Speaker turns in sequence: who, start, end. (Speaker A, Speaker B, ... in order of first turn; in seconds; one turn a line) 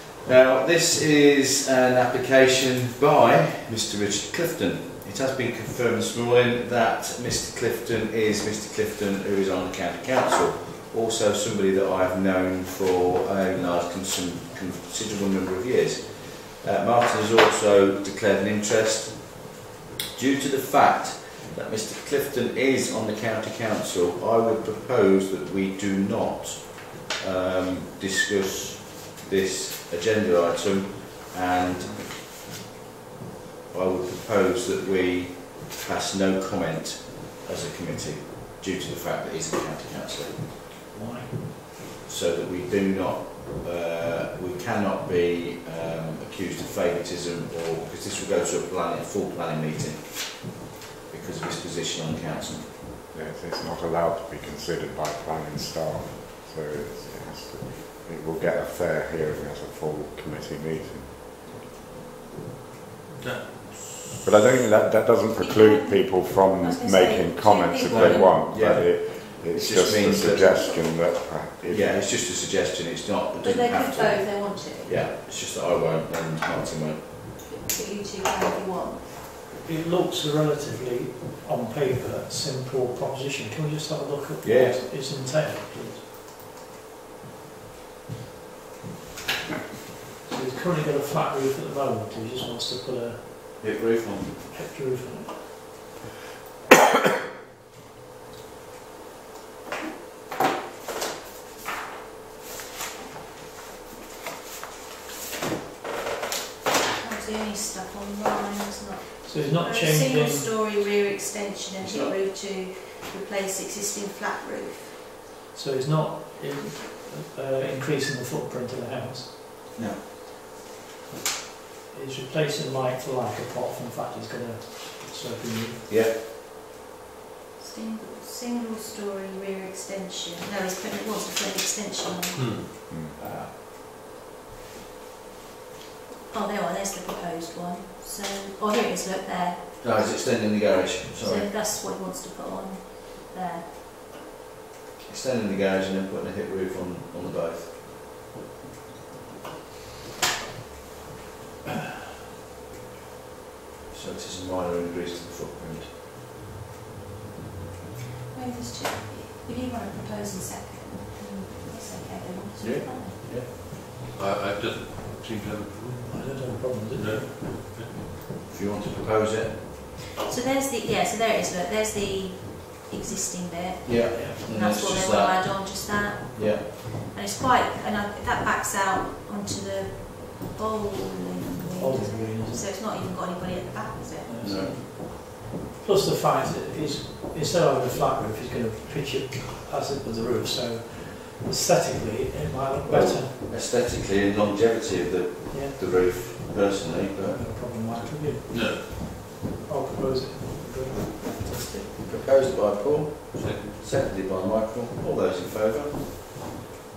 Speaker A: 0.2-32.1
Speaker A: 33.7-40.4
Speaker B: 40.9-41.6
Speaker A: 42.0-52.8
Speaker C: 53.1-61.2
Speaker D: 63.1-64.2
Speaker C: 64.2-72.1
Speaker E: 65.3-68.4
Speaker A: 67.9-71.1
Speaker A: 71.7-77.1
Speaker E: 73.4-75.0
Speaker E: 77.4-79.0
Speaker B: 79.6-86.0
Speaker A: 84.4-84.7
Speaker B: 90.2-93.6
Speaker A: 93.6-94.3
Speaker B: 94.5-95.8
Speaker E: 106.9-115.1
Speaker B: 109.2-110.5
Speaker A: 111.8-112.1
Speaker B: 115.5-119.4
Speaker A: 119.7-120.0
Speaker B: 121.9-125.9
Speaker A: 125.9-126.2
Speaker E: 127.6-132.5
Speaker D: 132.3-132.7
Speaker C: 132.9-133.2
Speaker A: 133.2-133.5
Speaker E: 136.3-139.8
Speaker A: 139.8-141.5
Speaker E: 141.2-143.8
Speaker A: 145.1-147.8
Speaker A: 153.9-155.9
Speaker E: 158.3-163.2
Speaker A: 162.6-163.5
Speaker D: 164.1-166.2
Speaker B: 166.0-167.5
Speaker D: 166.9-168.1
Speaker A: 168.5-169.6
Speaker E: 170.2-184.3
Speaker A: 173.8-176.7
Speaker B: 181.8-182.7
Speaker B: 184.2-193.3
Speaker A: 184.4-184.8
Speaker A: 192.8-197.4
Speaker B: 195.5-196.0
Speaker B: 196.8-201.9
Speaker D: 198.5-199.1
Speaker A: 201.9-206.6
Speaker D: 203.3-203.8